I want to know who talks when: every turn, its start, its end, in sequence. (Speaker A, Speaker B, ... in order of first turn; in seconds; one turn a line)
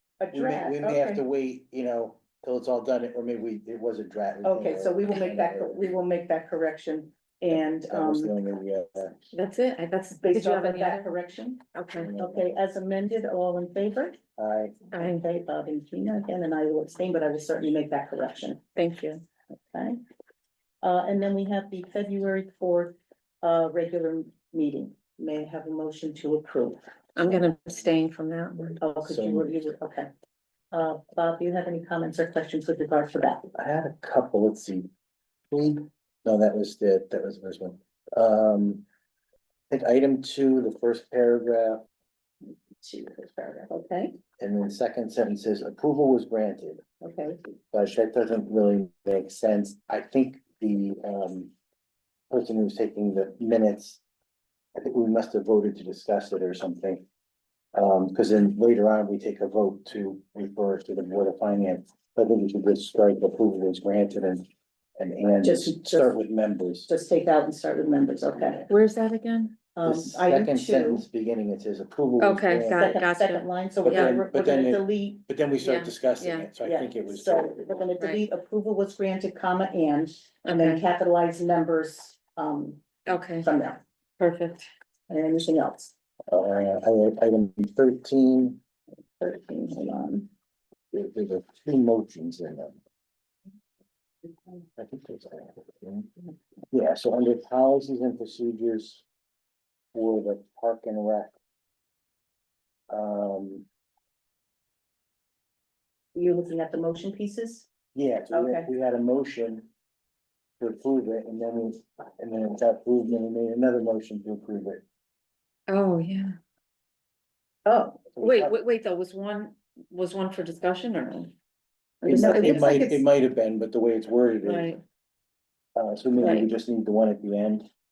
Speaker A: 0.2-1.2
Speaker B: 0.3-5.8
Speaker A: 4.4-8.3
Speaker B: 7.5-9.2
Speaker C: 9.3-11.1
Speaker A: 10.2-14.2
Speaker C: 11.7-12.1
Speaker B: 12.0-12.5
Speaker B: 14.4-14.8
Speaker C: 14.9-15.2
Speaker A: 15.0-18.7
Speaker C: 18.8-19.2
Speaker A: 19.7-20.0
Speaker A: 20.8-27.4
Speaker C: 27.2-28.8
Speaker A: 28.8-30.1
Speaker B: 29.0-29.5
Speaker A: 30.7-33.5
Speaker B: 33.5-34.9
Speaker B: 35.5-38.8
Speaker B: 39.7-41.8
Speaker A: 42.8-44.2
Speaker B: 44.4-46.8
Speaker A: 47.0-47.5
Speaker B: 47.7-51.5
Speaker B: 52.3-54.0
Speaker B: 54.8-57.0
Speaker B: 57.7-66.9
Speaker A: 65.4-66.2
Speaker A: 66.9-68.7
Speaker C: 68.7-69.6
Speaker A: 69.8-71.0
Speaker B: 69.8-72.8
Speaker C: 72.2-74.1
Speaker A: 72.7-75.2
Speaker B: 73.8-77.6
Speaker C: 75.6-76.5
Speaker A: 76.6-83.8
Speaker C: 80.5-80.8
Speaker C: 83.1-83.5
Speaker C: 84.2-84.7
Speaker A: 85.1-85.9
Speaker B: 86.3-88.6
Speaker A: 89.2-90.3
Speaker B: 90.9-92.8
Speaker B: 94.8-99.0
Speaker B: 99.9-101.3
Speaker B: 102.9-103.7
Speaker A: 106.1-107.7
Speaker B: 107.9-109.7
Speaker A: 108.3-108.7
Speaker B: 110.6-114.8
Speaker C: 115.7-116.4
Speaker A: 117.7-118.1
Speaker B: 118.2-118.5
Speaker C: 118.2-121.3
Speaker A: 122.0-123.0
Speaker C: 122.0-122.8
Speaker B: 122.1-124.7
Speaker C: 124.5-124.8
Speaker B: 125.8-127.7
Speaker C: 126.2-126.5